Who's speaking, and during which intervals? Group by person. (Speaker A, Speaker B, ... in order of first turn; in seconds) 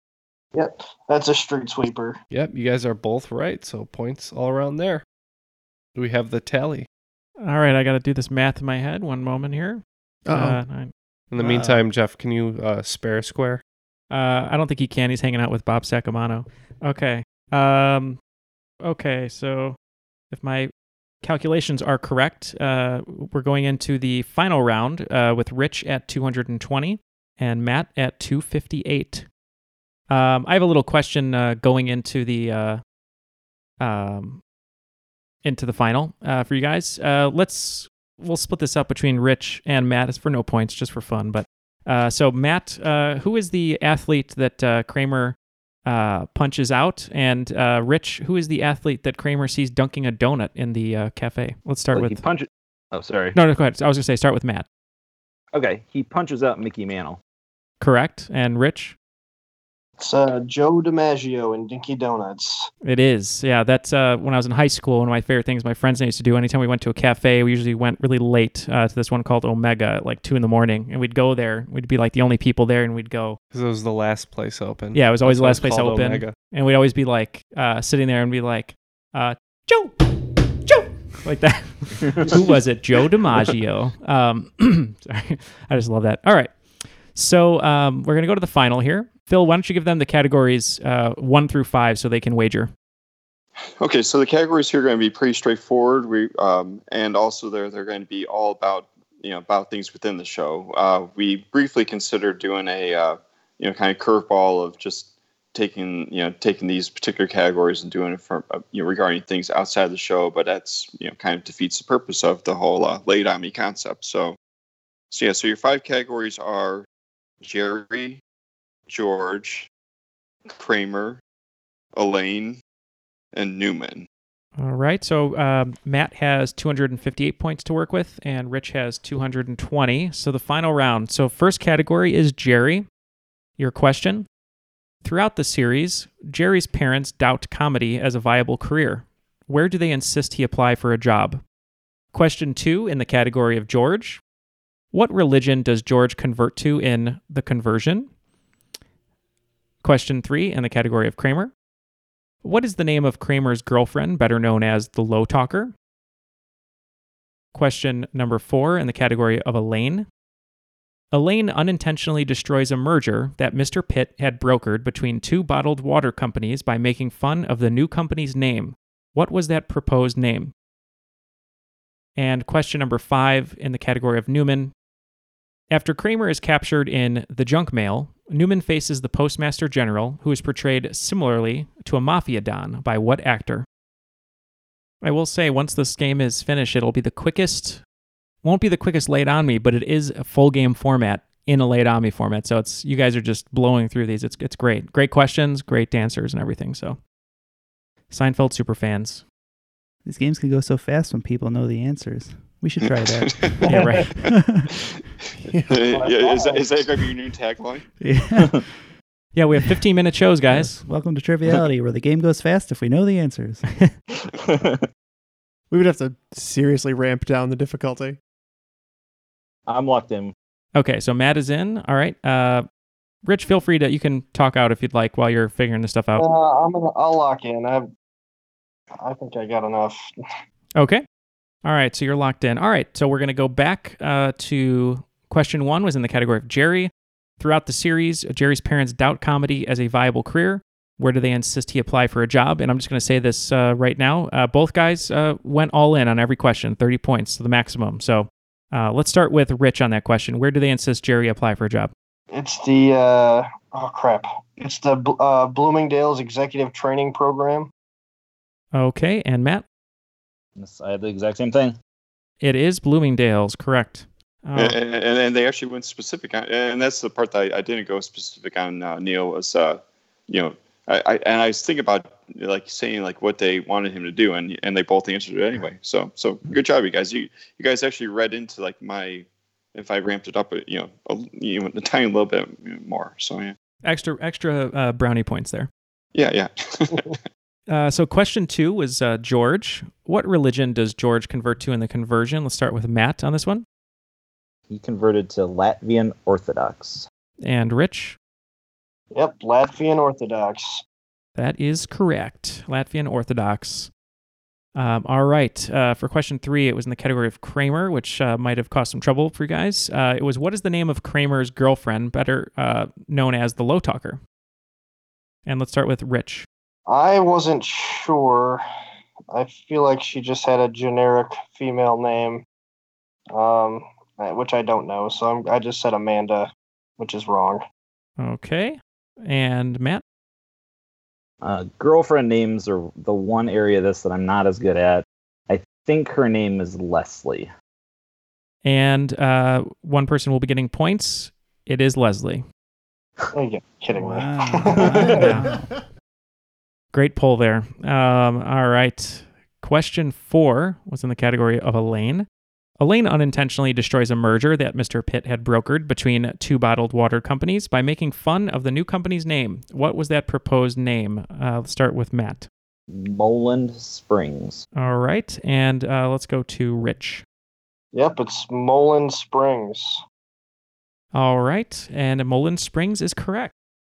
Speaker A: 0.5-2.2, 60.0-62.7, 205.9-206.7, 226.2-227.9, 229.0-230.0, 252.3-257.7, 299.1-300.8, 316.9-318.6, 319.3-322.4, 323.3-327.6, 343.3-345.4, 367.9-370.0
Speaker B: 2.3-5.0, 5.9-6.9, 11.3-13.6, 73.5-76.4
Speaker C: 7.4-10.9, 14.1-18.2, 18.8-19.8, 20.3-20.7, 21.2-29.2, 30.1-32.8, 33.8-34.4, 35.4-52.2, 53.3-54.6, 57.8-58.9, 62.8-73.4, 74.9-92.7, 124.6-132.8, 133.6-134.2, 135.0-141.4, 142.1-144.2, 144.9-148.1, 149.8-151.5, 152.4-155.7, 157.5-160.1, 161.1-170.5, 172.2-174.7, 175.7-183.7, 185.0-187.8, 188.4-197.0, 198.1-199.2, 203.7-204.1, 209.3-210.8, 220.7-222.6, 223.2-226.2, 230.8-231.0, 231.6-251.9, 258.7-259.6, 262.4-264.8, 283.8-285.7, 287.7-293.6, 297.4-298.2, 301.4-303.9, 304.7-314.2, 315.4-316.4, 328.2-330.0, 338.6-342.4, 345.2-345.5, 346.9-352.3, 352.8-362.5, 364.8-367.2, 371.1-373.5
Speaker D: 10.3-10.6, 205.4-205.8, 215.7-218.2
Speaker E: 51.9-53.3, 55.5-57.2, 214.2-214.8, 219.7-220.3, 260.6-261.7, 294.7-297.1, 331.4-337.5, 362.9-364.6
Speaker F: 93.8-114.4, 115.1-116.8, 117.4-118.2, 118.9-119.7, 120.5-121.2, 122.0-122.6, 123.3-124.0, 203.3-203.6, 205.7-207.8, 264.6-283.5, 286.1-287.1
Speaker G: 200.1-204.7, 208.0-208.8, 210.5-213.7, 343.9-345.7